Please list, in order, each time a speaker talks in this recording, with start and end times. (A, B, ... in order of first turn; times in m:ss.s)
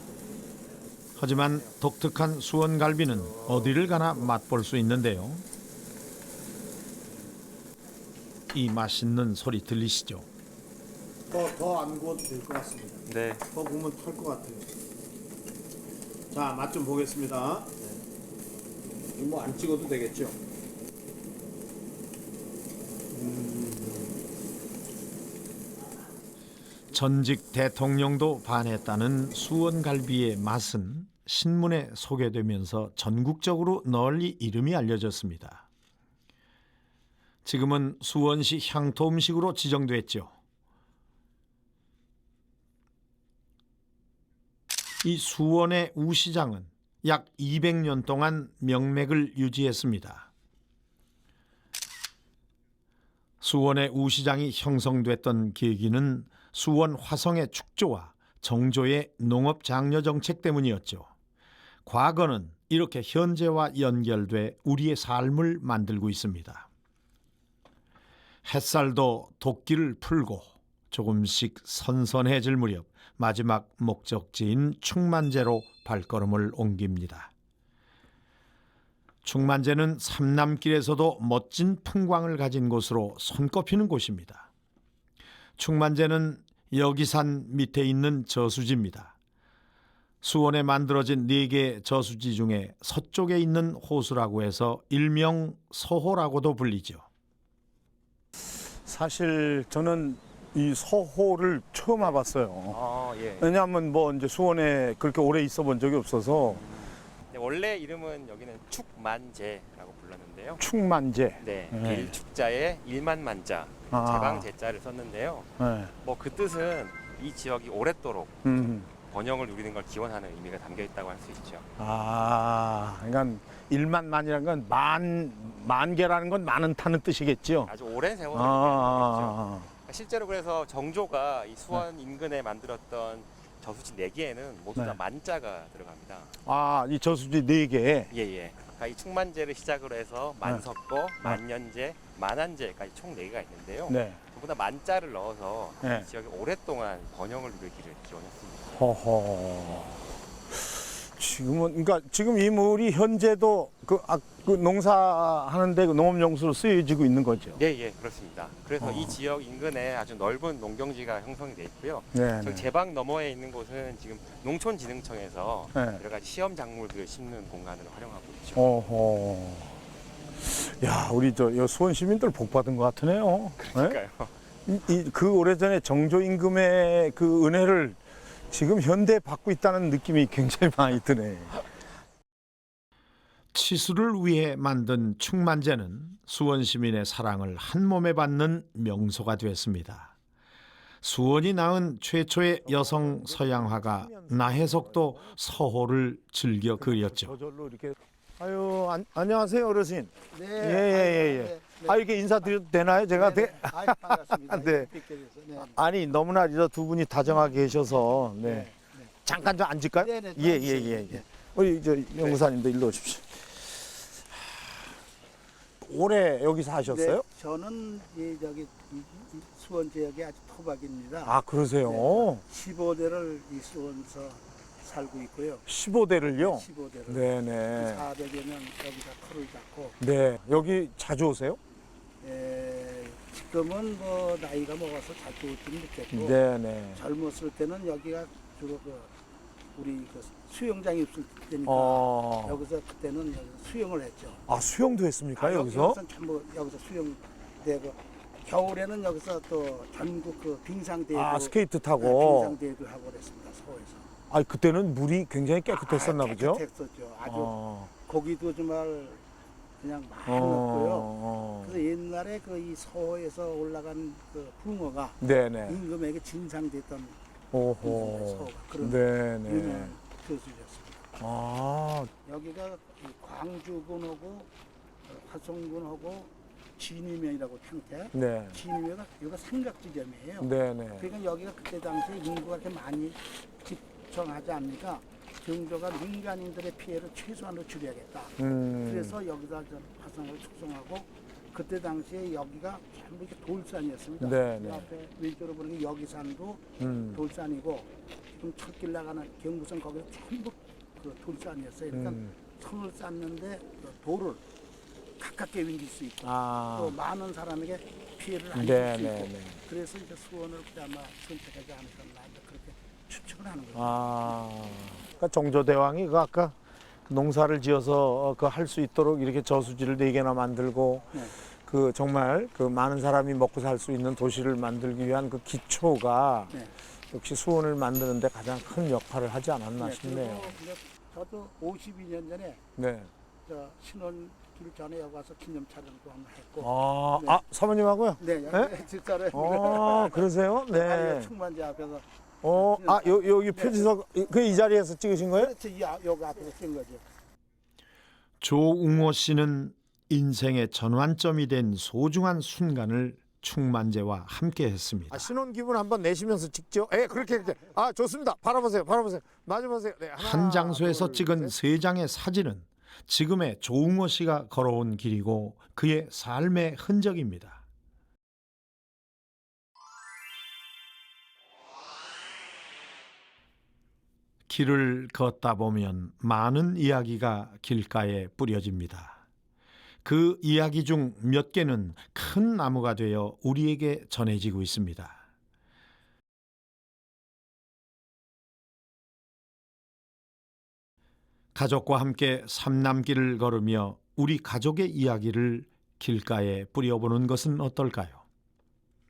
0:01.2-0:05.4 A
0:03.4-0:04.2 B
0:08.5-0:10.3 A
0:11.3-0:13.0 B
0:13.1-0:13.4 C
0:13.5-0:14.6 B
0:16.3-0:17.7 B
0:19.2-0:20.4 B
0:23.2-0:23.9 B
0:26.9-0:35.7 A
0:37.4-0:40.3 A
0:45.0-0:46.7 A
0:47.0-0:47.4 B
0:47.2-0:50.3 A
0:53.4-1:01.1 A
1:01.9-1:06.7 A
1:08.4-1:17.3 A
1:19.2-1:24.5 A
1:25.6-1:29.2 A
1:30.2-1:37.0 A
1:38.8-1:42.8 B
1:42.7-1:43.6 C
1:43.4-1:46.6 B
1:46.4-1:50.6 C
1:50.6-1:52.2 B
1:51.4-1:55.5 C
1:53.9-1:54.5 B
1:55.6-1:55.9 B
1:56.0-2:01.7 C
1:58.4-1:58.9 B
2:01.8-2:07.7 B
2:07.7-2:16.3 C
2:08.3-2:09.7 B
2:16.4-2:18.1 B
2:18.1-2:28.8 C
2:23.9-2:24.2 B
2:25.8-2:26.1 B
2:28.8-2:30.0 B
2:31.0-2:37.6 B
2:37.6-2:48.7 C
2:38.8-2:39.2 B
2:42.1-2:42.7 B
2:45.7-2:46.0 B
2:48.6-2:49.8 B
2:50.4-2:54.0 B
2:53.6-2:54.3 C
2:54.7-2:58.0 B
2:58.5-3:01.6 B
3:03.5-3:10.1 A
3:11.0-3:17.4 A
3:12.6-3:15.4 B
3:16.8-3:24.9 B
3:20.3-3:22.0 D
3:23.1-3:25.8 D
3:25.6-3:28.7 B
3:27.4-3:27.7 D
3:28.3-3:29.1 D
3:29.2-3:33.4 B
3:30.0-3:31.2 D
3:35.8-3:37.2 B
3:36.9-3:45.6 D
3:41.2-3:42.4 B
3:45.7-3:48.1 B
3:46.4-3:50.0 D
3:50.0-3:51.6 B
3:52.2-3:56.4 D
3:56.1-3:57.0 B
3:56.9-3:59.1 D
3:59.8-4:04.4 D
4:01.7-4:02.6 B
4:04.5-4:06.0 B
4:05.4-4:14.1 D
4:11.1-4:12.6 B
4:14.3-4:16.6 B
4:15.7-4:19.2 D
4:17.2-4:17.9 B
4:19.8-4:27.2 D
4:20.3-4:21.8 B
4:25.2-4:25.8 B
4:27.5-4:30.0 B
4:27.8-4:31.0 D
4:31.2-4:32.1 B
4:32.2-4:34.5 D
4:35.1-5:04.4 D
4:38.1-4:38.6 B
4:40.4-4:41.1 B
4:48.4-4:49.2 B
4:54.2-4:54.9 B
4:56.8-4:57.2 B
5:01.9-5:02.3 B
5:05.2-5:14.4 D
5:06.2-5:07.0 B
5:08.5-5:09.6 B
5:13.8-5:16.5 B
5:17.1-5:26.6 B
5:27.1-5:30.6 B
5:29.8-5:32.6 D
5:32.8-5:33.1 B
5:33.5-5:37.4 D
5:36.6-5:38.7 B
5:38.2-5:43.9 D
5:39.3-5:41.3 B
5:42.4-5:45.6 B
5:45.3-5:47.0 D
5:48.4-5:55.3 A
5:55.1-6:01.6 B
6:00.2-6:07.6 A
6:14.5-6:19.2 A
6:20.0-6:25.2 A
6:31.6-6:38.2 A